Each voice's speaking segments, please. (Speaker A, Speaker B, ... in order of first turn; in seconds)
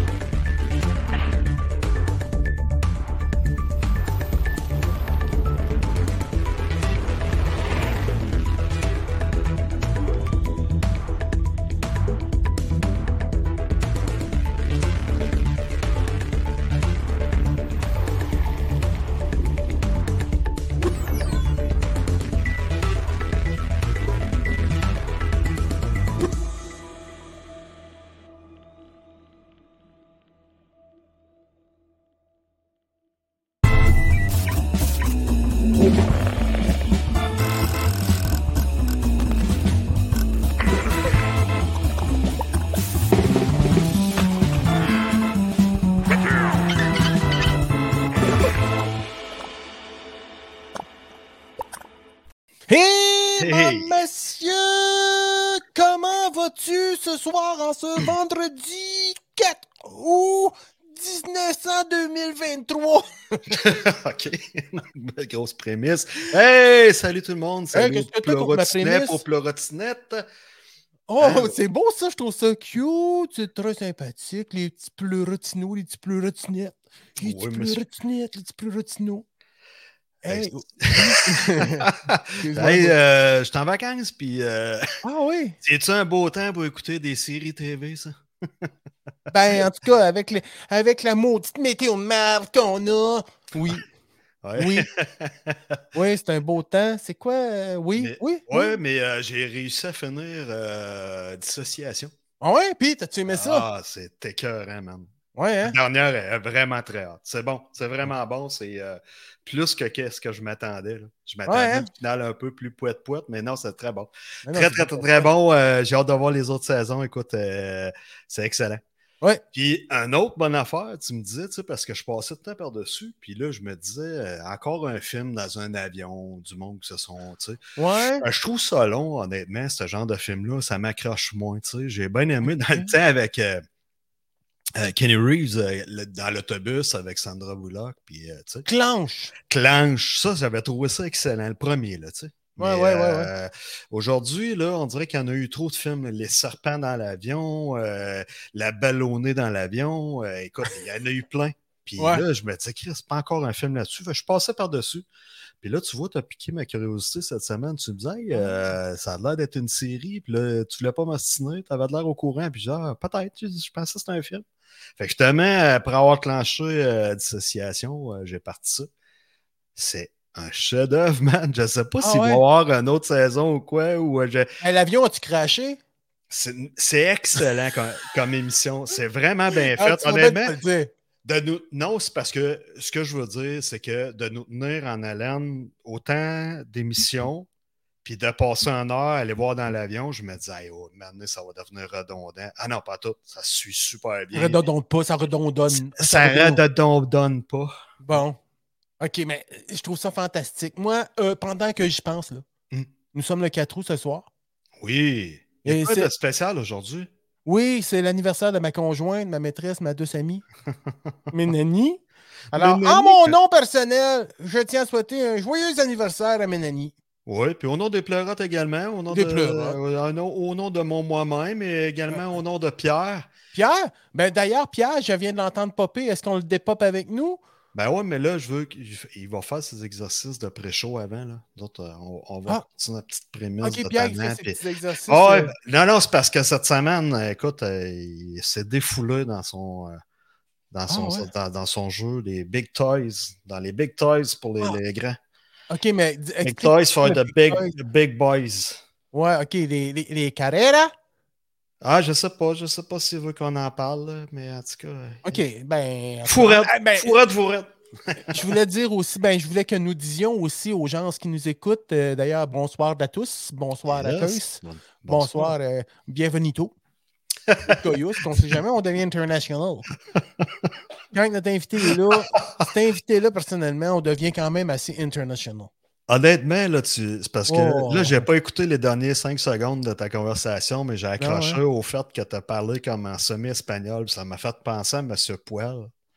Speaker A: 52.7-63.6, 67.7-69.2, 71.1-79.2, 80.2-81.9, 82.4-82.9, 85.0-85.6, 89.3-93.8, 94.6-94.9, 95.9-98.8, 102.4-103.7, 105.3-105.8, 111.5-111.9, 114.4-115.3, 127.8-128.2, 132.5-132.9, 138.7-139.3, 142.6-143.3, 152.0-152.2, 158.3-158.6, 172.0-172.4, 174.6-175.8, 179.8-180.9, 194.3-196.6, 198.0-198.4, 199.0-202.4, 203.1-204.3, 205.7-206.1, 207.4-210.4, 211.3-212.0, 212.5-216.9, 219.1-219.8, 222.1-222.4, 223.5-227.4, 233.6-235.5, 240.9-241.3, 245.7-247.7, 249.1-250.9, 255.2-257.1, 258.3-266.7, 267.8-269.9, 271.1-275.7, 277.5-278.2, 281.2-281.6
Speaker B: 53.4-53.9, 63.5-70.3, 71.2-71.5, 77.2-77.8, 80.3-84.9, 85.6-88.7, 94.4-95.8, 98.0-102.1, 103.3-105.1, 105.6-118.8, 119.5-127.6, 128.2-133.6, 134.7-138.7, 139.5-155.1, 155.6-164.4, 165.0-168.9, 169.8-174.5, 176.3-180.6, 181.2-187.5, 188.0-194.6, 195.7-197.7, 204.8-207.1, 212.5-213.3, 217.2-223.3, 227.7-240.0, 240.7-245.2, 246.4-248.8, 251.8-255.4, 256.2-258.4, 263.9-265.5, 267.5-268.4, 270.2-270.7, 272.4-272.6, 276.1-285.9